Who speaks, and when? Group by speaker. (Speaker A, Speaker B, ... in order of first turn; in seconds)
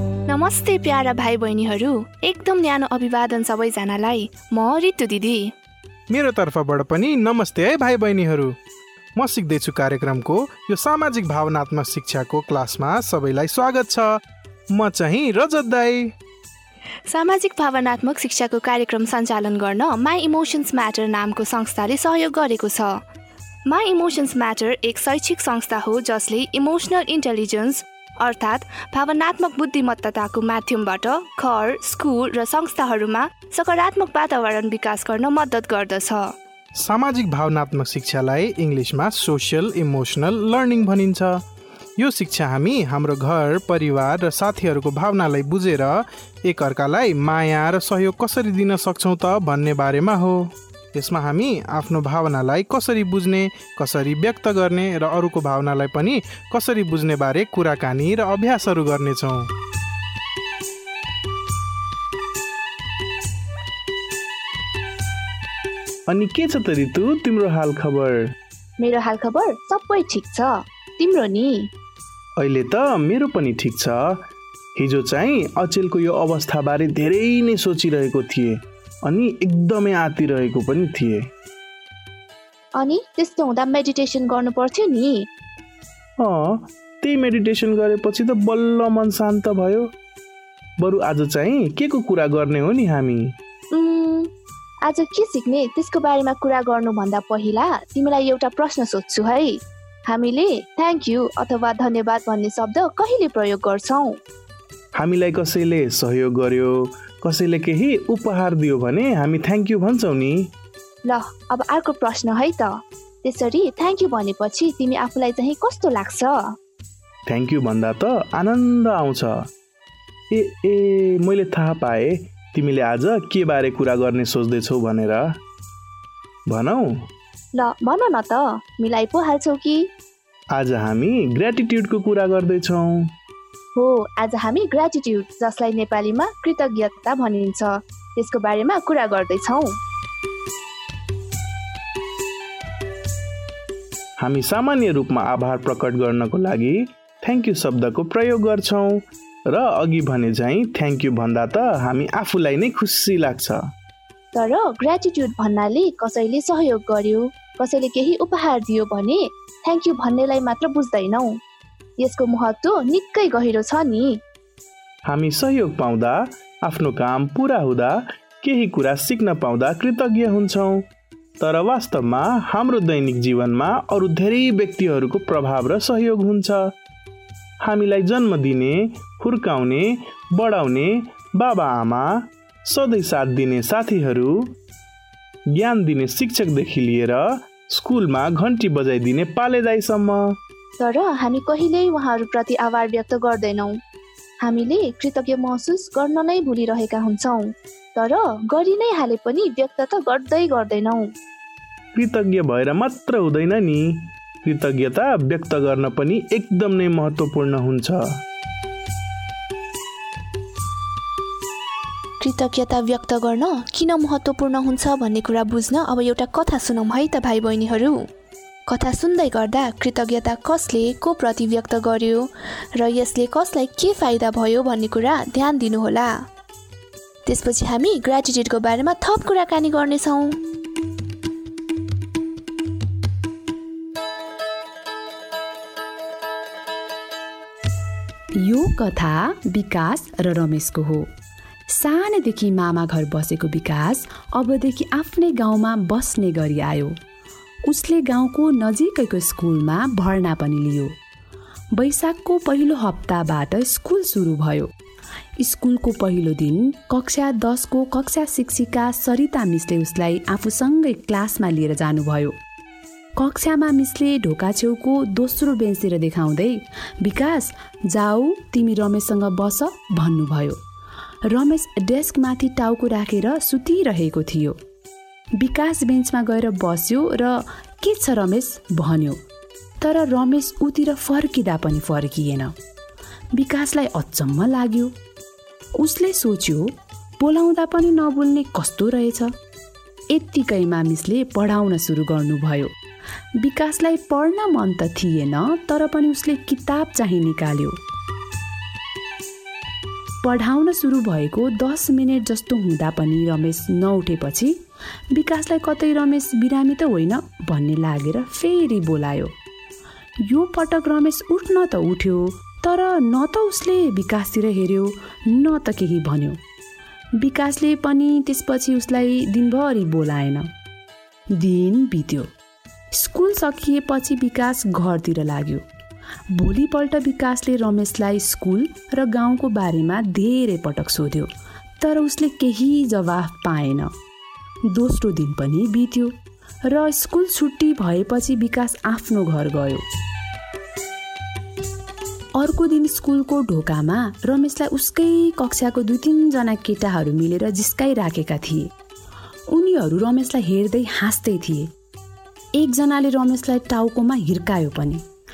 Speaker A: 0.3-5.5, 17.1-23.0, 23.7-36.3, 68.8-71.7, 82.8-85.3, 93.7-94.3, 94.8-104.2, 111.1-116.5, 127.5-129.9, 133.8-139.8, 154.3-161.4, 162.0-164.2, 190.8-193.8, 194.4-201.1, 212.2-218.1, 218.7-226.3, 227.3-230.4
Speaker B: 6.1-8.6, 9.2-14.1, 14.7-16.1, 36.8-41.4, 42.0-59.5
Speaker C: 66.1-68.3, 72.4-81.3, 86.2-89.9, 90.8-93.4, 105.0-110.5, 117.3-119.5, 120.3-125.4, 126.5-127.1, 130.5-133.1, 144.2-153.7, 165.1-170.9, 171.4-176.7, 177.6-184.6, 185.5-190.4, 201.9-208.2
Speaker D: 238.4-241.1, 241.7-247.0, 247.7-250.9, 251.7-254.7, 255.4-262.4, 263.2-270.6, 271.2-274.6, 275.4-279.2, 279.8-282.6, 283.3-284.9, 285.8-289.3, 290.1-292.7, 293.4-297.8, 300.2-304.6, 305.1-309.3, 310.2-316.4, 317.2-320.5, 321.3-322.3, 322.9-325.6, 326.3-333.9, 334.7-339.8, 342.4-348.7, 349.5-351.7, 352.6-355.0